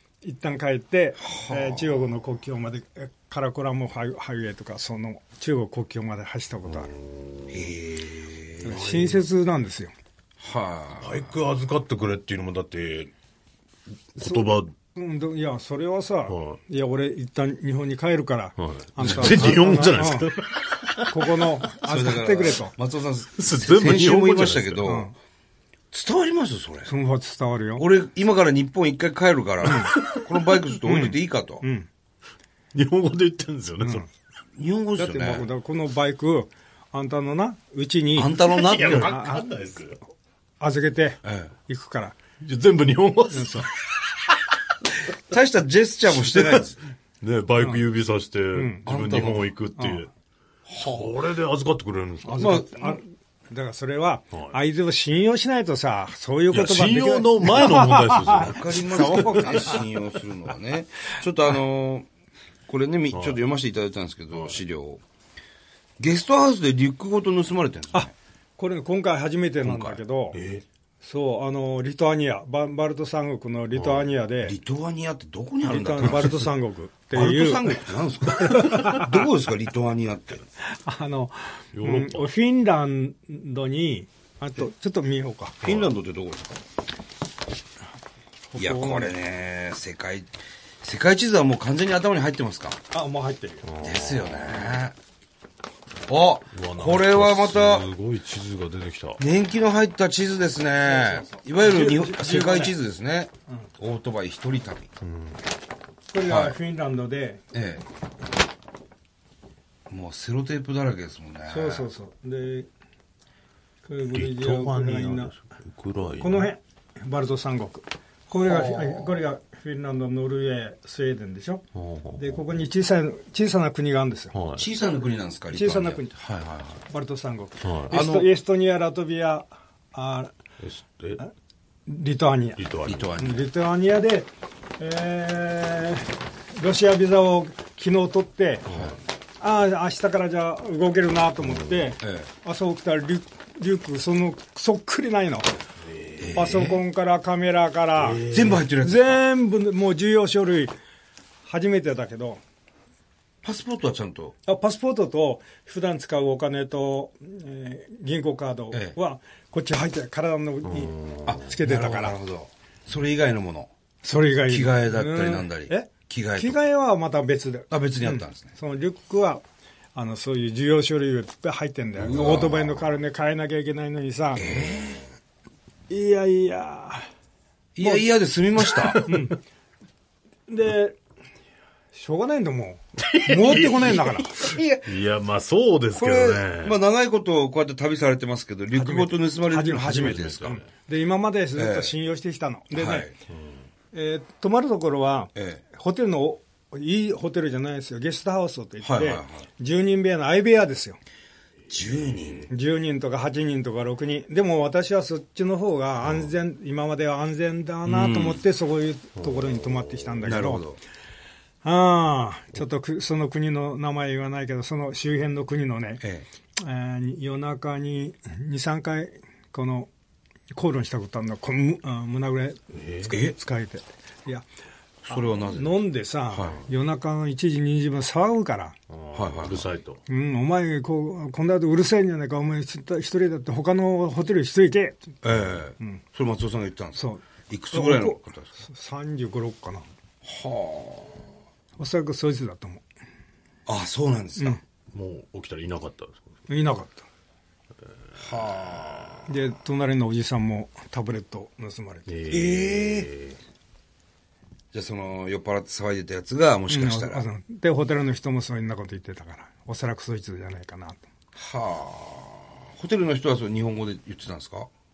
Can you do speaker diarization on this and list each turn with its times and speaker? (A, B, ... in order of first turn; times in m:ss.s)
0:00.2-0:06.9 A
0:01.2-0:02.0 B
0:06.7-0:07.7 C
0:07.5-0:08.7 B
0:08.6-0:09.9 A
0:08.6-0:09.2 C
0:10.4-0:11.3 B
0:11.0-0:13.1 C
0:14.1-0:14.7 C
0:14.2-0:20.3 A
0:16.3-0:16.6 C
0:18.6-0:21.4 C
0:19.0-0:19.5 B
0:21.1-0:22.7 A
0:21.8-0:25.1 B
0:23.4-0:24.9 C
0:24.8-0:25.1 A
0:25.9-0:26.9 B
0:26.8-0:27.8 A
0:27.8-0:31.6 B
0:29.6-0:29.9 A
0:29.9-0:30.3 C
0:30.8-0:31.9 A
0:32.7-0:34.0 C
0:33.8-0:34.1 A
0:34.6-0:35.5 B
0:35.0-0:39.5 A
0:38.2-0:39.2 B
0:38.4-0:40.0 C
0:40.6-0:42.2 A
0:41.2-0:41.5 B
0:42.4-0:43.9 C
0:43.3-0:43.7 A
0:45.3-0:46.8 B
0:46.2-0:46.6 C
0:47.2-0:50.1 C
0:48.5-0:48.9 A
0:48.8-0:49.5 B
0:49.8-0:50.0 A
0:50.7-0:51.2 B
0:50.8-0:52.6 C
0:52.2-0:59.8 A
0:52.4-0:53.0 B
0:56.5-0:59.8 C
0:58.3-1:02.1 B
1:02.7-1:05.0 B
1:03.1-1:03.4 C
1:06.0-1:08.1 B
1:07.9-1:10.4 A
1:10.3-1:10.6 C
1:11.0-1:14.6 A
1:13.7-1:14.1 C
1:14.4-1:16.5 B
1:15.6-1:17.8 A
1:17.1-1:20.4 B
1:18.4-1:19.2 A
1:20.7-1:25.6 A
1:21.7-1:22.3 C
1:25.6-1:26.6 B
1:28.5-1:29.1 A
1:28.6-1:30.3 B
1:30.8-1:32.8 B
1:32.9-1:33.6 A
1:33.6-1:34.8 C
1:33.8-1:34.9 B
1:36.1-1:37.9 B
1:36.5-1:39.2 C
1:39.2-1:44.9 B
1:40.9-1:42.8 A
1:45.0-1:45.4 C
1:46.1-1:47.4 A
1:46.2-1:46.5 B
1:47.5-1:47.8 B
1:49.9-1:51.9 B
1:51.5-1:52.7 A
1:53.8-1:55.3 A
1:54.1-1:56.5 C
1:56.2-2:01.6 A
1:58.5-1:59.2 B
2:01.7-2:02.4 C
2:02.2-2:04.3 A
2:04.3-2:04.6 C
2:04.6-2:06.8 B
2:05.5-2:06.1 A
2:06.9-2:10.3 A
2:07.6-2:07.9 C
2:07.9-2:08.3 B
2:10.6-2:11.2 C
2:11.9-2:12.6 A
2:12.6-2:13.2 C
2:12.8-2:13.4 B
2:13.2-2:18.7 A
2:19.4-2:25.5 A
2:21.4-2:21.9 C
2:22.0-2:22.3 B
2:25.9-2:26.7 C
2:26.2-2:26.7 B
2:26.3-2:28.2 A
2:28.0-2:28.6 C
2:28.2-2:29.2 B
2:28.8-2:30.7 A
2:31.4-2:32.4 A
2:33.4-2:34.3 B
2:34.4-2:42.2 A
2:40.6-2:41.4 C
2:41.2-2:43.7 B
2:44.0-2:49.4 A
2:44.5-2:46.6 B
2:47.7-2:48.5 B
2:49.9-2:54.5 A
2:52.0-2:52.8 B
2:54.4-2:55.1 B
2:55.9-2:57.1 A
2:57.8-2:59.0 B
2:58.6-2:59.2 C
2:59.0-2:59.4 A
3:00.5-3:01.0 A
3:01.9-3:04.5 A
3:03.0-3:06.8 C
3:04.4-3:04.9 B
3:05.9-3:10.6 B
3:08.7-3:13.1 A
3:09.9-3:10.6 C
3:11.6-3:11.9 B
3:12.7-3:13.1 B
3:13.9-3:21.0 A
3:15.4-3:15.6 B
3:18.8-3:19.5 B
3:21.7-3:22.5 B
3:22.1-3:22.4 C
3:22.5-3:30.6 A
3:27.8-3:28.4 B
3:29.2-3:30.2 C
3:30.2-3:30.8 B
3:31.6-3:36.0 A
3:36.0-3:36.3 B
3:36.6-3:39.9 A
3:40.5-3:44.5 A
3:42.7-3:43.1 C
3:43.1-3:43.3 B
3:45.0-3:46.6 B
3:45.1-3:48.8 A
3:48.9-3:50.0 C
3:49.1-3:49.7 B
3:50.1-3:55.2 A
3:55.2-3:58.5 B
3:56.9-3:59.8 A
4:00.2-4:01.2 B
4:01.8-4:02.8 A
4:03.7-4:04.6 B
4:04.9-4:06.3 C
4:06.5-4:07.0 A
4:08.2-4:09.3 B
4:09.3-4:13.0 A
4:12.1-4:13.4 C
4:14.7-4:17.2 B
4:16.7-4:21.0 A
4:21.3-4:24.7 B